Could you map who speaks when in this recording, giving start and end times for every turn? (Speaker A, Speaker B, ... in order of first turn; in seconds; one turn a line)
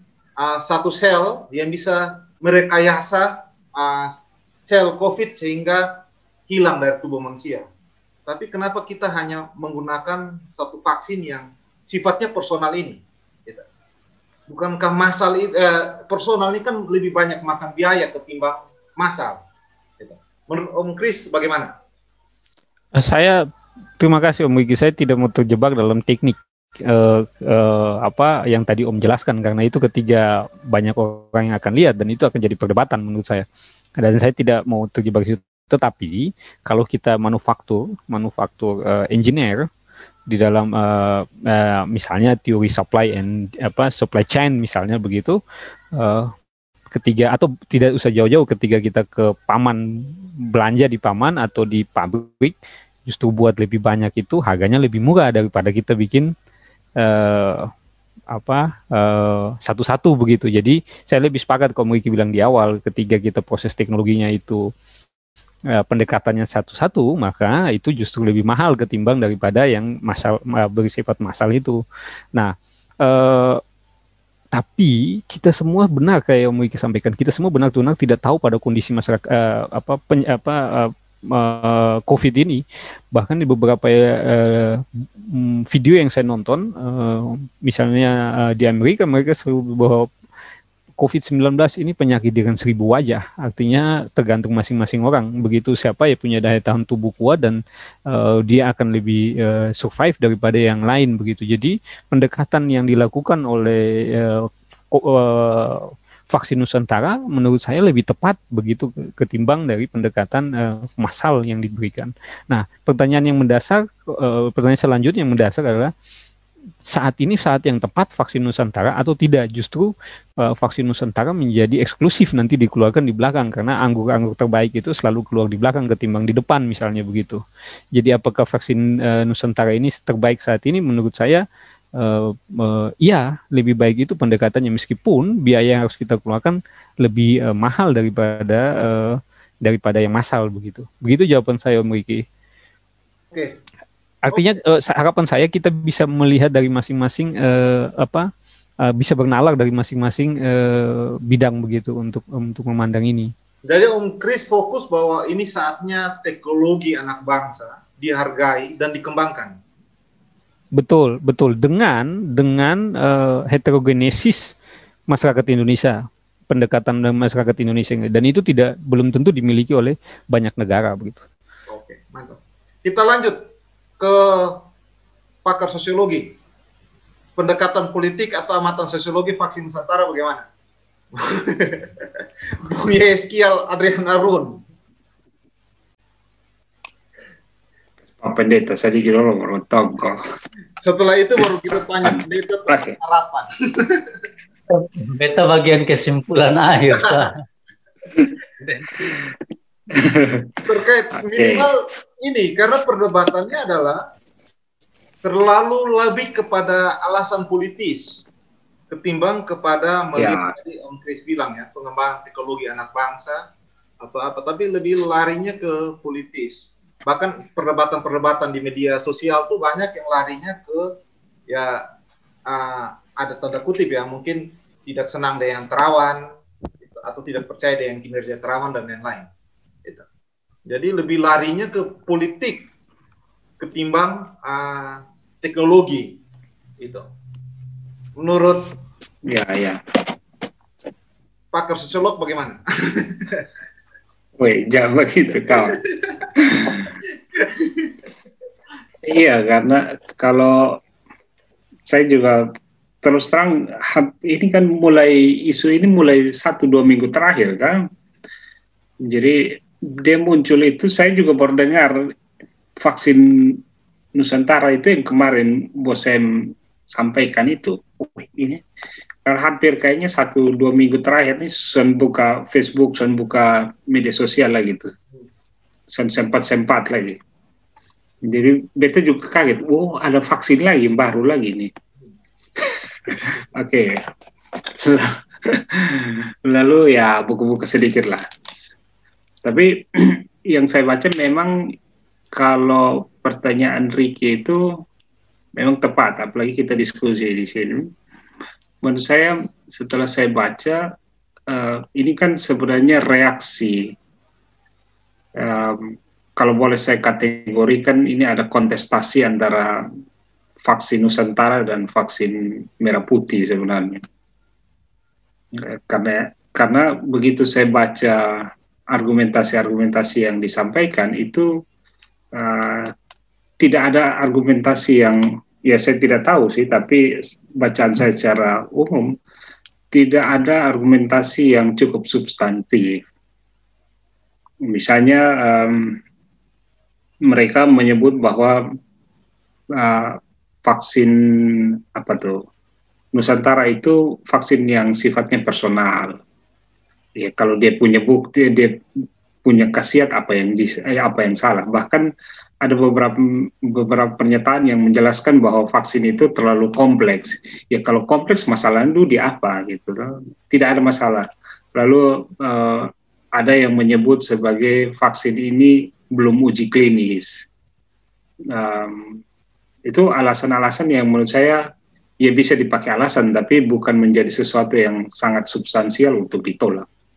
Speaker A: 0.4-7.7
Speaker A: 8.3-13.7
Speaker A: 14.5-19.4
Speaker A: 20.0-21.7
Speaker B: 23.0-23.4
Speaker B: 24.0-33.5
Speaker B: 34.0-39.7
Speaker B: 40.3-45.4
Speaker B: 46.0-46.3
Speaker B: 46.9-49.8
Speaker B: 50.5-52.5
Speaker B: 53.1-56.3
Speaker B: 57.0-57.7
Speaker B: 58.3-64.6
Speaker B: 65.8-71.8
Speaker B: 72.4-73.6
Speaker B: 74.5-82.6
Speaker B: 83.1-90.1
Speaker B: 91.0-115.9
Speaker B: 116.9-119.9
Speaker B: 120.4-127.4
Speaker B: 128.0-131.4
Speaker B: 132.0-142.2
Speaker A: 143.3-143.6
Speaker B: 144.3-148.3
Speaker A: 144.3-144.6
Speaker B: 148.9-153.3
Speaker A: 153.7-159.6
Speaker B: 160.8-164.5
Speaker B: 165.1-166.0
Speaker B: 166.5-171.2
Speaker A: 171.7-174.7
Speaker A: 175.4-176.4
Speaker A: 177.4-180.5
Speaker A: 181.1-184.6
Speaker C: 188.2-190.2
Speaker A: 190.8-194.2
Speaker C: 191.4-193.0
Speaker D: 194.7-197.3
Speaker D: 198.6-199.0
Speaker C: 199.9-200.6
Speaker A: 200.7-204.0
Speaker C: 201.3-201.7
Speaker A: 205.2-208.2
Speaker A: 208.9-213.5
Speaker C: 210.2-210.5
Speaker A: 214.0-220.9
Speaker A: 221.5-221.8
Speaker A: 222.5-226.3
Speaker A: 226.9-229.3
Speaker A: 230.7-232.7
Speaker A: 233.6-236.2
Speaker A: 236.8-237.1
Speaker A: 238.2-238.8
Speaker C: 239.3-239.8
Speaker A: 241.5-243.5
Speaker C: 244.4-245.8
Speaker A: 245.5-246.3
Speaker C: 246.4-246.9
Speaker A: 247.1-247.9
Speaker C: 249.0-250.8
Speaker C: 251.9-252.5
Speaker C: 253.0-257.8
Speaker C: 259.1-262.0
Speaker C: 262.8-263.6
Speaker C: 264.2-266.3
Speaker C: 266.9-268.6
Speaker C: 269.2-274.9
Speaker C: 275.9-277.2
Speaker C: 278.3-281.7
Speaker C: 282.6-283.9
Speaker C: 284.8-288.7
Speaker C: 289.4-291.5
Speaker C: 292.4-294.6
Speaker C: 295.6-297.9
Speaker C: 298.8-300.8
Speaker C: 301.5-303.9
Speaker C: 305.4-309.8
Speaker C: 310.6-314.0
Speaker C: 315.5-321.5
Speaker C: 322.3-322.9
Speaker C: 323.6-327.0
Speaker C: 327.6-329.1
Speaker C: 329.9-333.0
Speaker C: 334.7-336.0
Speaker C: 337.3-338.6
Speaker C: 339.8-341.1
Speaker C: 341.9-342.4
Speaker C: 343.1-346.2
Speaker C: 347.2-348.8
Speaker C: 349.4-352.1
Speaker C: 352.6-367.4
Speaker C: 368.5-369.2
Speaker C: 369.9-371.6
Speaker C: 372.2-376.9